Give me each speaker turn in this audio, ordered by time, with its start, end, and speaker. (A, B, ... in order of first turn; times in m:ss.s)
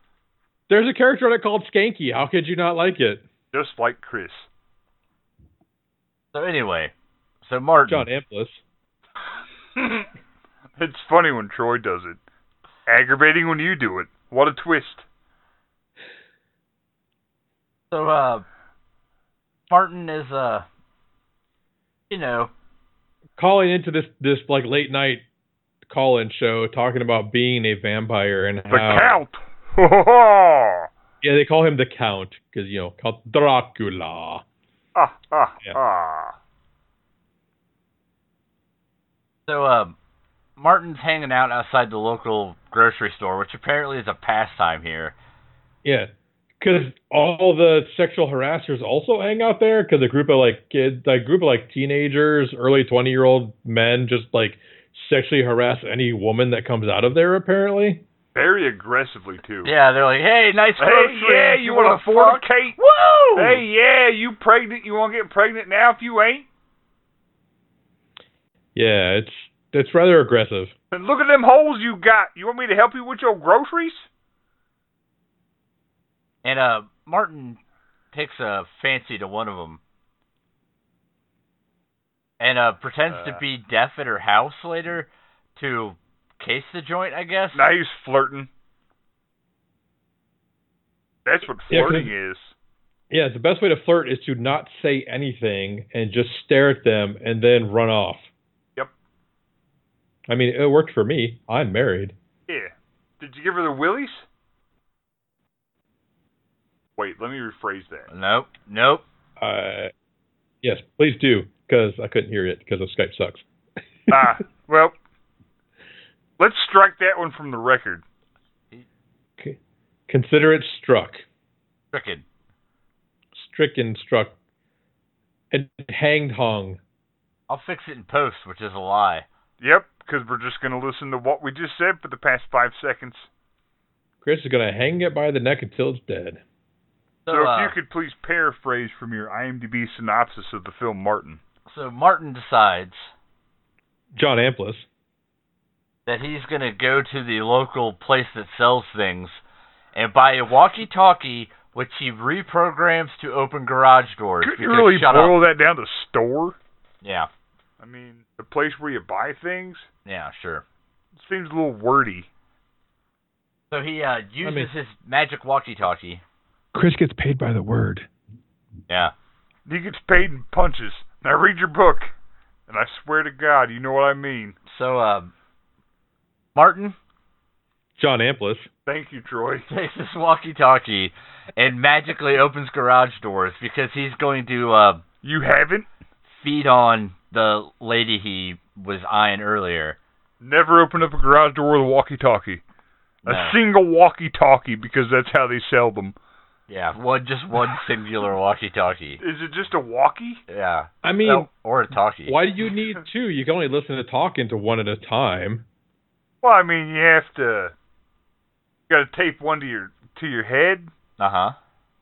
0:00.7-0:03.2 A
0:03.5-0:04.5 B
0:06.3-0:06.9 C
0:07.4-0:08.1 C
0:07.9-0:08.6 A
0:09.8-0:10.0 B
0:10.8-0:12.2 B
0:12.8-0:15.0 B
0:17.9-0:18.4 C
0:19.7-0:20.6 C
0:22.1-0:22.5 C
0:23.4-0:25.2 A
0:25.9-0:29.2 A
0:28.7-0:30.9 B
0:31.2-0:34.4 A
0:34.9-0:36.4 B
0:39.5-0:40.0 C
0:40.6-0:45.1 C
0:45.8-0:58.0 A
0:58.3-0:59.7 B
0:59.6-1:03.6 C
1:00.8-1:02.8 B
1:03.3-1:06.5 B
1:08.8-1:10.7 A
1:10.9-1:14.1 B
1:16.4-1:17.6 C
1:18.1-1:19.8 C
1:22.4-1:27.6 C
1:23.1-1:23.4 B
1:27.5-1:28.5 B
1:31.2-1:32.5 B
1:31.7-1:32.1 A
1:33.1-1:38.3 A
1:40.3-1:42.1 A
1:42.5-1:44.3 B
1:47.0-1:48.1 B
1:48.1-1:49.0 C
1:49.4-1:49.9 A
1:50.6-1:53.4 A
1:54.1-1:54.9 B
1:56.4-1:58.0 B
1:59.4-2:01.2 A
2:01.9-2:02.2 C
2:03.3-2:04.3 A
2:05.5-2:06.8 A
2:07.5-2:09.2 C
2:09.6-2:13.3 B
2:14.2-2:16.4 A
2:17.2-2:17.7 C
2:17.3-2:21.4 B
2:21.7-2:23.1 C
2:24.1-2:24.9 A
2:26.1-2:29.4 C
2:29.9-2:35.4 C
2:34.4-2:36.6 B
2:37.0-2:37.3 C
2:37.8-2:39.9 B
2:40.0-2:40.6 C
2:41.2-2:42.3 B
2:43.7-2:46.2 C
2:44.4-2:44.7 A
2:46.7-2:48.1 A
2:49.7-2:52.1 B
2:52.7-2:54.6 B
2:54.7-2:55.3 C
2:56.5-2:57.0 C
2:58.0-2:58.7 A
2:58.8-2:59.7 B
2:59.7-3:05.0 C
3:05.2-3:05.9 B
3:06.4-3:10.0 C
3:10.4-3:12.6 B
3:13.2-3:13.6 C
3:13.2-3:16.2 B
3:16.7-3:19.2 C
3:19.2-3:20.4 B
3:20.5-3:22.4 C
3:21.0-3:21.5 A
3:22.3-3:25.6 A
3:26.4-3:27.7 B
3:28.9-3:30.9 B
3:31.2-3:31.5 C